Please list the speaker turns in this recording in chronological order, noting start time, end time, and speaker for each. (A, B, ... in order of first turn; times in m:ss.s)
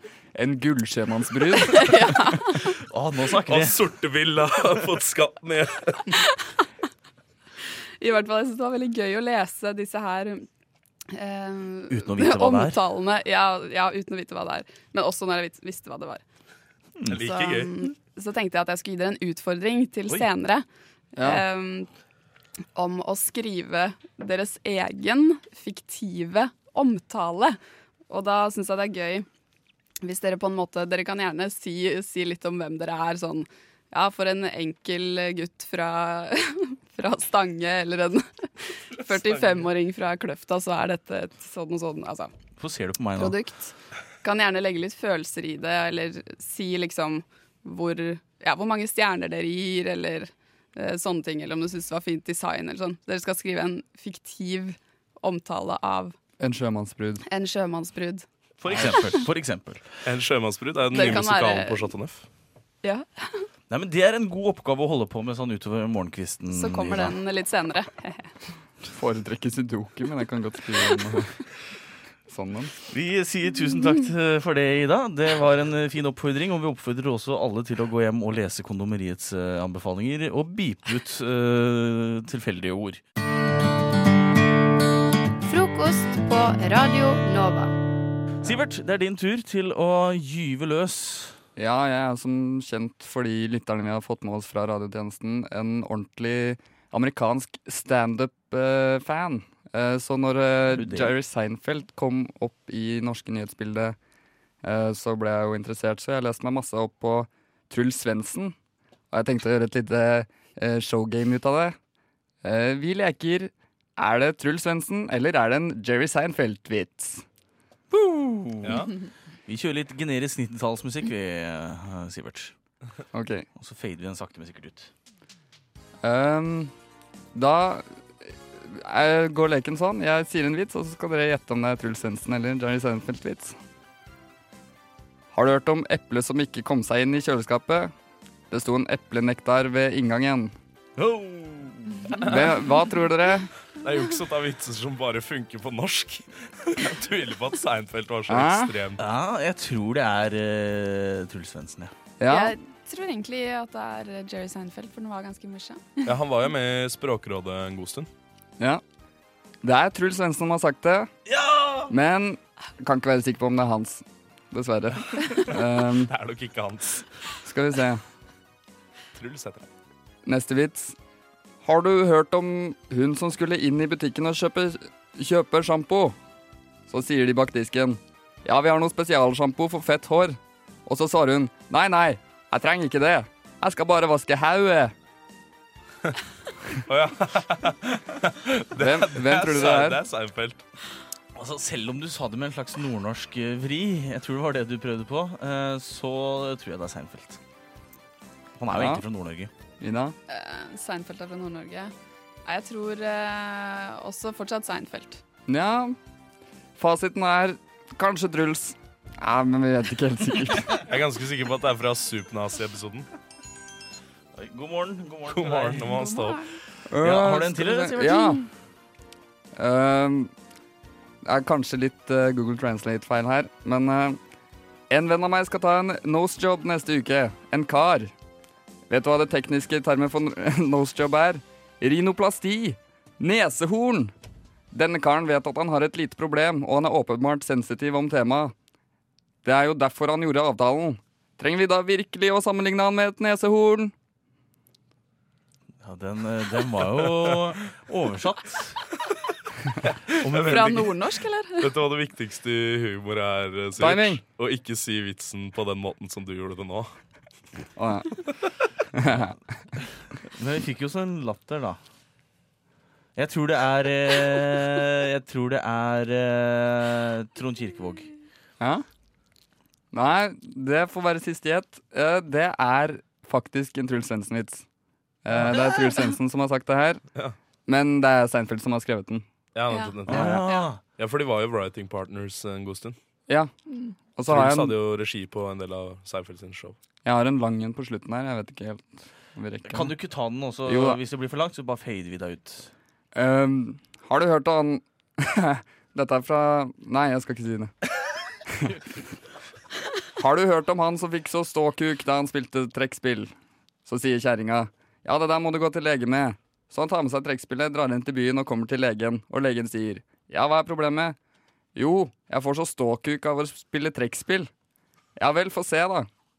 0:00.3-0:01.9 A
0:01.7-0:02.3 B
0:02.9-0:03.8 C
0:03.4-0:06.0 D
0:08.0-0:10.4 B
0:11.2-0:16.2 B
0:11.9-0:12.8 C
0:17.1-0:17.8 D
0:17.2-0:20.6 B
0:21.2-0:21.4 A
0:21.2-0:21.9 B
0:22.8-0:27.6 B
0:28.1-0:29.2 B
0:30.0-0:36.4 B
0:36.9-0:38.2 B
0:39.0-0:39.7 D
0:39.0-0:42.3 B
0:42.6-0:43.4 C
0:43.2-0:43.7 B
0:44.2-0:56.1 B
0:56.4-0:57.2 A
0:57.3-0:58.2 B
0:58.6-1:00.0 C
1:00.0-1:02.2 D
1:00.9-1:01.9 B
1:03.7-1:07.2 C
1:06.5-1:08.2 B
1:08.9-1:11.3 A
1:12.3-1:12.7 A
1:12.9-1:23.0 C
1:25.4-1:27.7 E
1:28.4-1:31.4 C
1:31.6-1:44.0 A
1:40.7-1:41.1 C
1:44.6-1:48.5 A
1:49.1-1:51.8 A
1:52.4-1:57.2 A
1:57.9-1:58.9 C
1:58.6-1:58.9 D
1:59.4-2:02.5 C
2:03.1-2:03.4 A
2:03.5-2:04.9 C
2:06.0-2:06.7 A
2:07.3-2:13.6 A
2:15.3-2:17.9 A
2:18.5-2:20.5 A
2:21.0-2:22.4 C
2:22.2-2:23.5 A
2:23.8-2:29.0 D
2:28.3-2:28.7 A
2:29.0-2:31.9 C
2:32.2-2:32.5 A
2:32.3-2:35.8 B
2:36.0-2:38.1 D
2:39.6-2:41.1 A
2:41.3-2:42.0 C
2:41.9-2:46.1 A
2:46.0-2:47.0 D
2:47.4-2:48.0 A
2:49.1-2:49.7 D
2:50.2-2:50.9 A
2:51.6-2:56.1 A
2:56.9-3:04.9 A
3:06.9-3:10.6 D
3:08.8-3:10.0 A
3:11.3-3:17.4 C
3:18.6-3:19.5 C
3:18.7-3:19.0 A
3:19.8-3:20.2 A
3:20.3-3:21.9 B
3:22.4-3:25.2 B
3:25.5-3:26.0 A
3:26.8-3:30.8 A
3:30.8-3:33.0 D
3:34.3-3:36.0 C
3:35.3-3:36.4 D
3:36.9-3:38.4 A
3:37.0-3:38.4 C
3:39.6-3:40.3 A
3:41.2-3:44.2 A
3:44.9-3:48.1 A
3:48.9-3:54.1 A
3:54.7-3:58.5 A
3:59.4-4:03.9 A
4:05.8-4:08.8 C
4:10.1-4:16.9 D
4:10.2-4:10.8 C
4:10.5-4:11.7 B
4:13.8-4:14.2 A
4:17.8-4:18.1 A
4:19.0-4:19.3 A
4:20.4-4:21.8 C
4:23.2-4:28.1 C
4:29.9-4:34.6 A
4:35.2-4:37.0 A
4:37.7-4:39.2 A
4:39.5-4:43.0 D
4:40.1-4:40.8 C
4:44.1-4:44.8 A
4:44.2-4:46.8 D
4:47.0-4:50.0 A
4:49.7-4:52.7 C
4:50.6-4:51.0 A
4:53.1-4:57.7 A
5:00.2-5:03.3 A
5:03.8-5:11.2 A
5:11.8-5:14.5 A
5:15.2-5:16.1 A